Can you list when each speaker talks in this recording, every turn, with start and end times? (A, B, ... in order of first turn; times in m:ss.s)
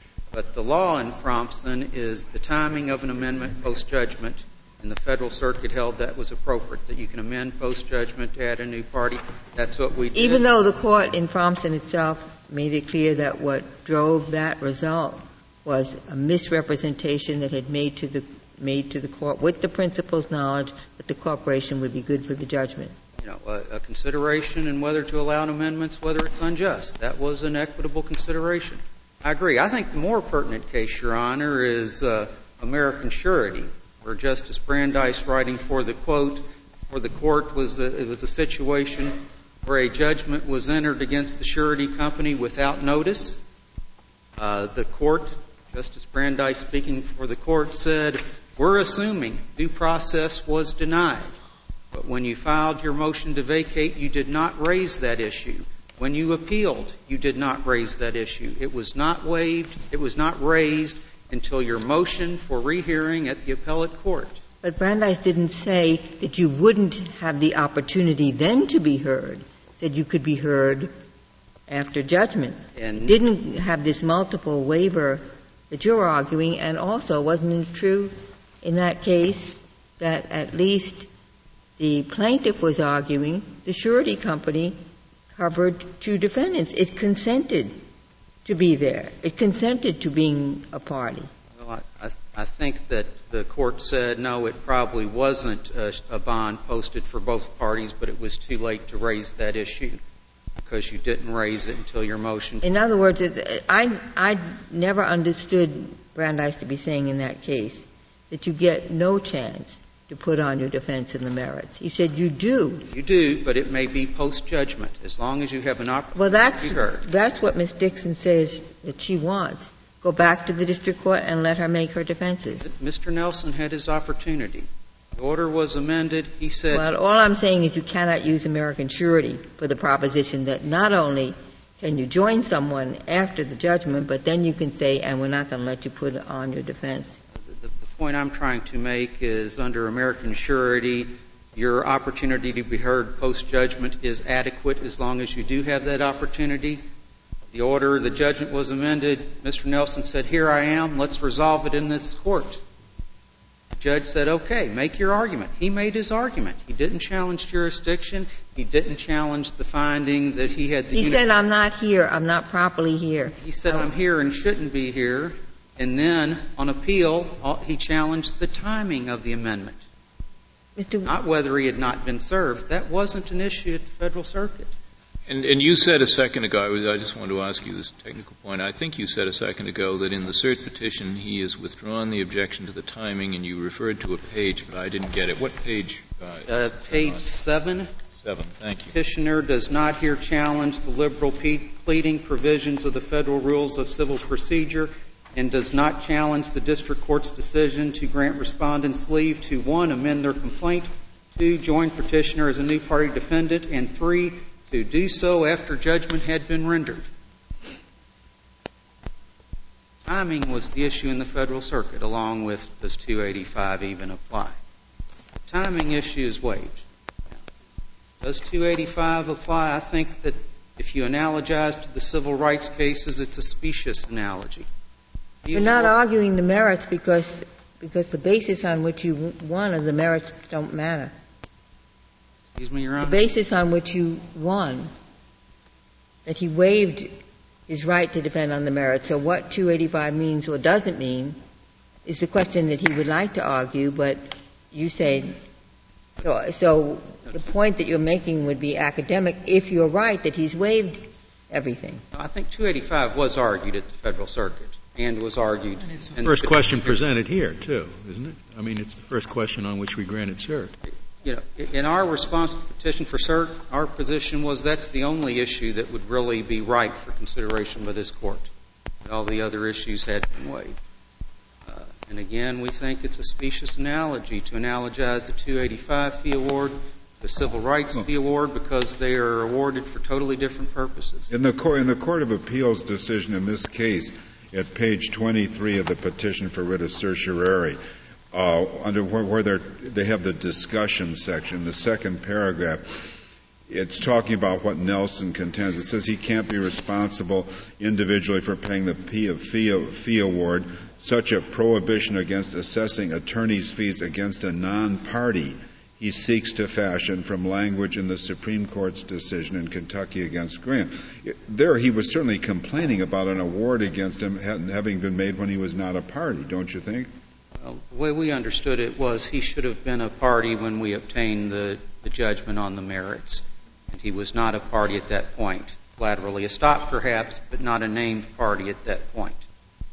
0:00.3-0:10.5 A
0:10.1-0:23.0 B
0:23.2-0:43.4 A
0:44.4-0:51.3 A
0:51.9-1:04.4 A
1:04.6-1:10.9 B
1:11.7-1:21.1 B
1:12.8-1:13.2 A
1:21.8-1:24.8 B
1:25.3-1:27.8 B
1:28.4-1:31.3 B
1:31.6-1:40.0 A
1:40.6-1:42.6 A
1:42.6-1:52.9 B
1:52.9-1:57.1 A
1:56.2-2:02.6 B
2:02.6-2:06.9 A
2:06.7-2:17.2 B
2:17.4-2:26.8 A
2:27.5-2:32.6 A
2:33.7-2:41.2 A
2:40.9-2:43.4 B
2:43.4-2:49.8 A
2:50.8-2:51.1 B
2:51.0-2:54.7 A
2:55.3-3:07.2 C
3:06.5-3:07.9 A
3:08.2-3:09.0 C
3:08.9-3:27.1 A
3:30.0-3:34.6 A
3:35.5-3:37.4 A
3:38.2-3:44.7 A
3:45.4-3:45.9 A
3:45.5-3:51.1 B
3:52.5-3:53.2 A
3:53.0-3:54.9 B
3:56.2-3:57.1 B
3:57.7-4:01.4 B
4:02.0-4:05.4 B
4:06.2-4:12.0 B
4:12.1-4:17.0 A
4:16.0-4:20.7 D
4:20.9-4:28.5 A
4:29.0-4:30.8 A
4:31.7-4:41.3 A
4:41.3-4:47.8 E
4:48.3-4:52.9 E
4:53.7-5:17.1 E
5:17.6-5:29.4 A